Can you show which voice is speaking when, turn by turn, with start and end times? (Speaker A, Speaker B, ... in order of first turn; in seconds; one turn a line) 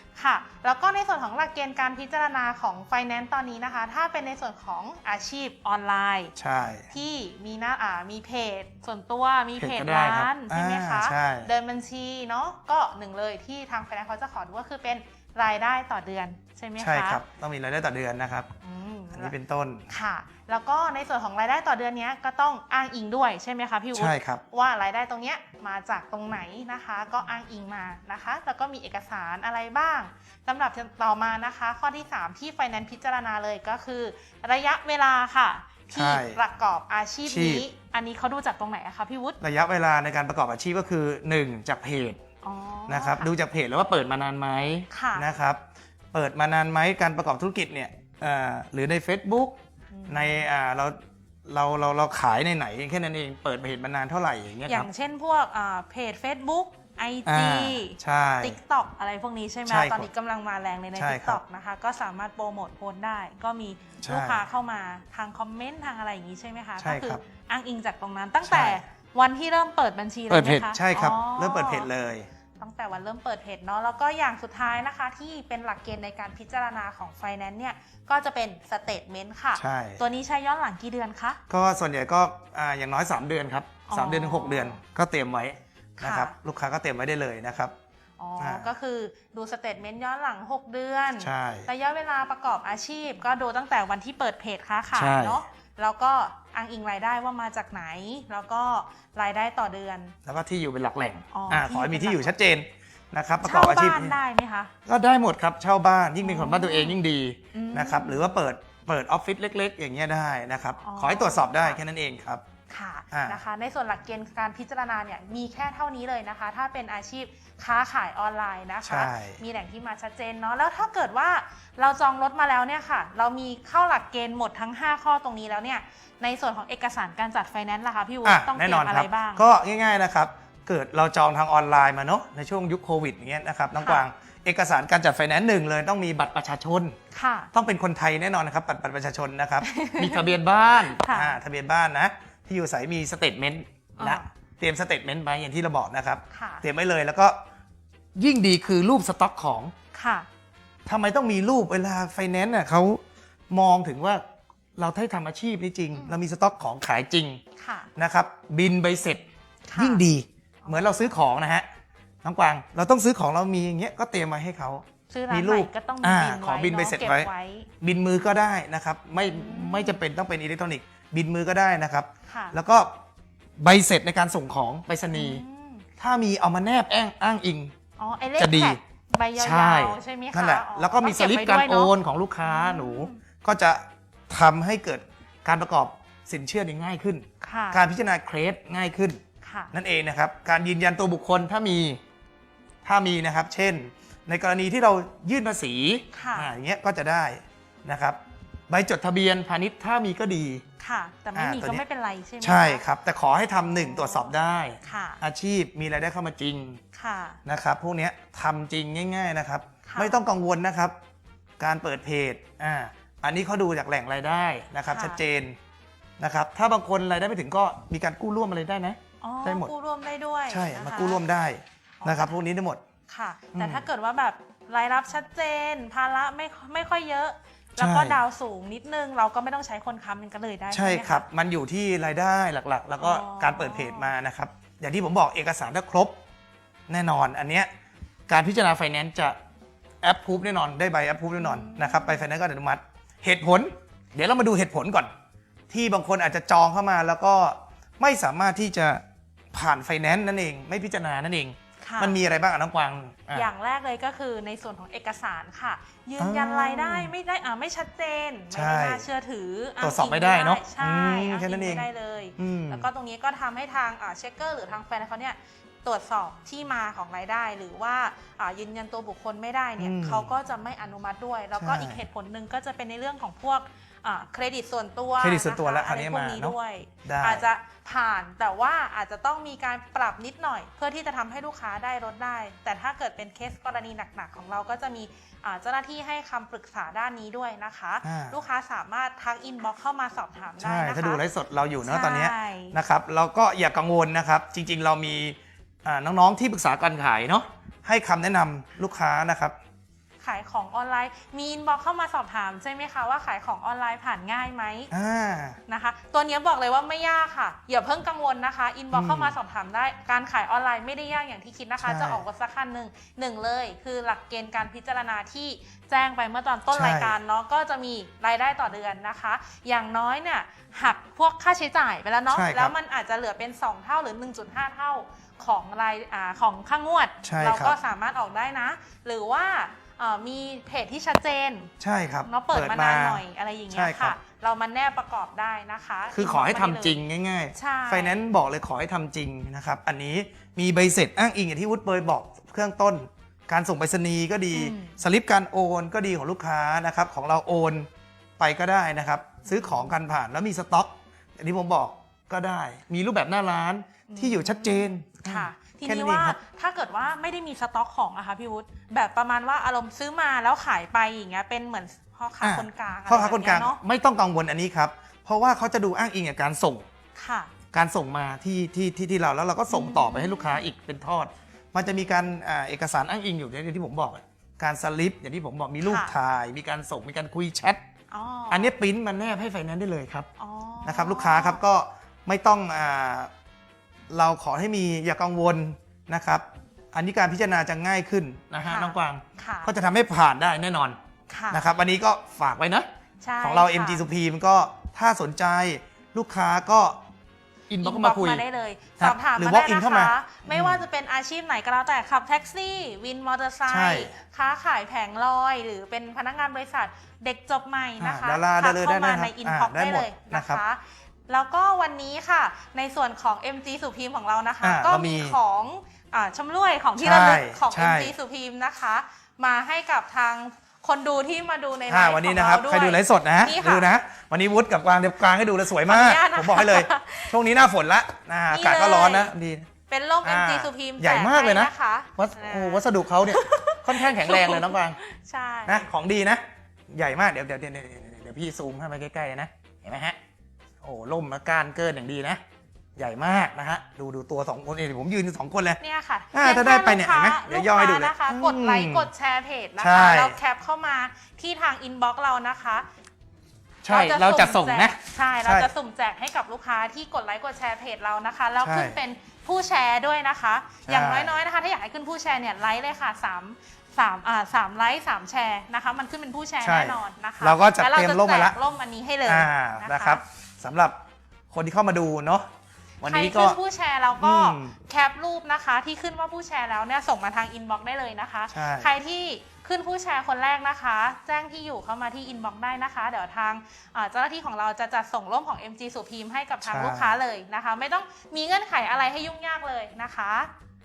Speaker A: 0.1-6.3
Speaker B: 6.3-6.9
Speaker A: 6.9-17.2
Speaker B: 9.6-11.5
Speaker B: 16.8-18.5
Speaker A: 18.6-19.3
Speaker B: 19.1-19.8
Speaker A: 19.9-39.4
Speaker B: 23.9-24.4
Speaker B: 35.9-36.4
Speaker B: 37.3-37.6
Speaker B: 39.4-42.2
Speaker A: 42.4-43.3
Speaker B: 42.9-45.6
Speaker A: 44.9-45.2
Speaker B: 46.1-49.5
Speaker A: 49.9-50.5
Speaker B: 50.1-54.9
Speaker A: 54.6-71.9
Speaker B: 57.2-58.6
Speaker B: 59.7-60.1
Speaker B: 61.0-61.4
Speaker B: 64.0-64.4
Speaker B: 66.8-67.2
Speaker B: 68.4-68.8
Speaker B: 70.3-72.3
Speaker A: 72.6-81.4
Speaker B: 79.5-80.0
Speaker B: 81.5-87.7
Speaker A: 83.9-84.8
Speaker A: 86.0-86.3
Speaker A: 88.2-100.1
Speaker B: 88.4-88.7
Speaker B: 91.2-91.7
Speaker B: 94.9-95.4
Speaker B: 100.2-104.2
Speaker A: 101.3-102.3
Speaker A: 103.4-104.7
Speaker B: 104.8-112.4
Speaker A: 106.2-107.0
Speaker A: 107.5-108.3
Speaker A: 110.8-111.8
Speaker A: 112.7-129.4
Speaker B: 113.1-113.4
Speaker B: 118.8-119.4
Speaker B: 128.2-136.9
Speaker A: 133.8-134.0
Speaker A: 137.1-137.5
Speaker B: 137.5-147.3
Speaker A: 139.6-141.4
Speaker A: 144.0-144.3
Speaker A: 146.3-146.6
Speaker B: 148.2-149.7
Speaker A: 149.9-150.3
Speaker B: 150.8-154.2
Speaker B: 154.8-157.4
Speaker A: 157.6-157.9
Speaker B: 157.9-159.2
Speaker A: 159.7-160.0
Speaker B: 159.8-161.7
Speaker A: 160.6-161.0
Speaker B: 162.2-167.3
Speaker A: 165.1-167.7
Speaker B: 167.8-172.9
Speaker A: 169.2-170.0
Speaker A: 172.2-172.6
Speaker B: 173.6-175.4
Speaker A: 175.1-175.8
Speaker B: 176.0-177.7
Speaker A: 178.0-183.2
Speaker B: 178.4-178.8
Speaker B: 179.4-189.2
Speaker A: 187.4-187.8
Speaker A: 189.4-189.7
Speaker B: 189.7-192.0
Speaker B: 192.8-200.6
Speaker A: 196.1-196.5
Speaker A: 200.8-202.8
Speaker B: 201.3-201.8
Speaker B: 202.4-206.8
Speaker A: 203.6-205.2
Speaker A: 206.9-207.4
Speaker B: 207.4-210.9
Speaker A: 209.8-210.2
Speaker B: 211.6-215.6
Speaker A: 214.9-215.2
Speaker B: 216.2-219.7
Speaker A: 219.2-221.2
Speaker B: 220.5-222.8
Speaker A: 222.0-222.4
Speaker A: 223.1-231.2
Speaker B: 223.5-223.8
Speaker B: 227.8-228.2
Speaker B: 230.7-236.1
Speaker A: 233.0-234.1
Speaker B: 236.9-237.7
Speaker B: 238.3-239.4
Speaker B: 240.0-245.1
Speaker A: 241.4-242.3
Speaker B: 245.7-253.5
Speaker A: 251.8-252.2
Speaker A: 253.3-291.2
Speaker B: 256.2-257.1
Speaker B: 258.5-259.1
Speaker B: 259.8-261.9
Speaker B: 262.4-262.9
Speaker B: 269.8-270.3
Speaker B: 271.6-272.0
Speaker B: 275.2-277.5
Speaker B: 288.0-288.4
Speaker B: 290.6-299.6
Speaker A: 291.8-292.8
Speaker A: 300.2-304.9
Speaker B: 304.9-305.6
Speaker A: 305.7-331.7
Speaker B: 308.9-309.4
Speaker B: 311.8-312.2
Speaker B: 316.7-317.1
Speaker B: 322.3-322.7
Speaker B: 327.2-327.8
Speaker B: 331.8-334.1
Speaker A: 332.2-337.0
Speaker B: 336.1-347.9
Speaker A: 337.5-338.2
Speaker A: 344.5-344.9
Speaker B: 348.4-356.4
Speaker A: 349.4-349.9
Speaker A: 354.1-363.8
Speaker B: 362.4-366.9
Speaker A: 367.1-367.5
Speaker B: 367.7-377.8
Speaker A: 369.7-370.6
Speaker A: 375.8-376.1
Speaker A: 378.1-378.7
Speaker B: 378.5-380.3
Speaker A: 380.4-381.6
Speaker B: 380.8-383.3
Speaker B: 384.1-391.0
Speaker A: 388.6-389.7
Speaker A: 391.3-391.7
Speaker B: 391.5-392.9
Speaker A: 393.2-394.0
Speaker B: 393.4-397.0
Speaker B: 397.7-398.4
Speaker A: 397.8-423.9
Speaker B: 399.0-400.9
Speaker B: 403.7-404.1
Speaker B: 408.0-410.6
Speaker B: 414.6-415.4
Speaker B: 417.0-418.1
Speaker B: 421.9-429.7
Speaker A: 425.8-427.4
Speaker A: 428.5-429.3
Speaker A: 429.9-435.9
Speaker B: 430.2-435.0
Speaker B: 435.7-440.2
Speaker B: 440.8-442.4
Speaker B: 443.0-445.8
Speaker A: 445.8-452.9
Speaker B: 446.3-449.1
Speaker B: 449.8-450.4
Speaker B: 453.8-455.7
Speaker A: 453.9-470.2
Speaker B: 458.6-459.0
Speaker B: 460.9-461.3
Speaker B: 466.6-468.6
Speaker B: 469.2-470.9
Speaker B: 471.5-472.5
Speaker B: 473.0-473.6
Speaker A: 473.0-490.5
Speaker B: 474.2-474.8
Speaker B: 478.5-478.9
Speaker B: 486.6-487.2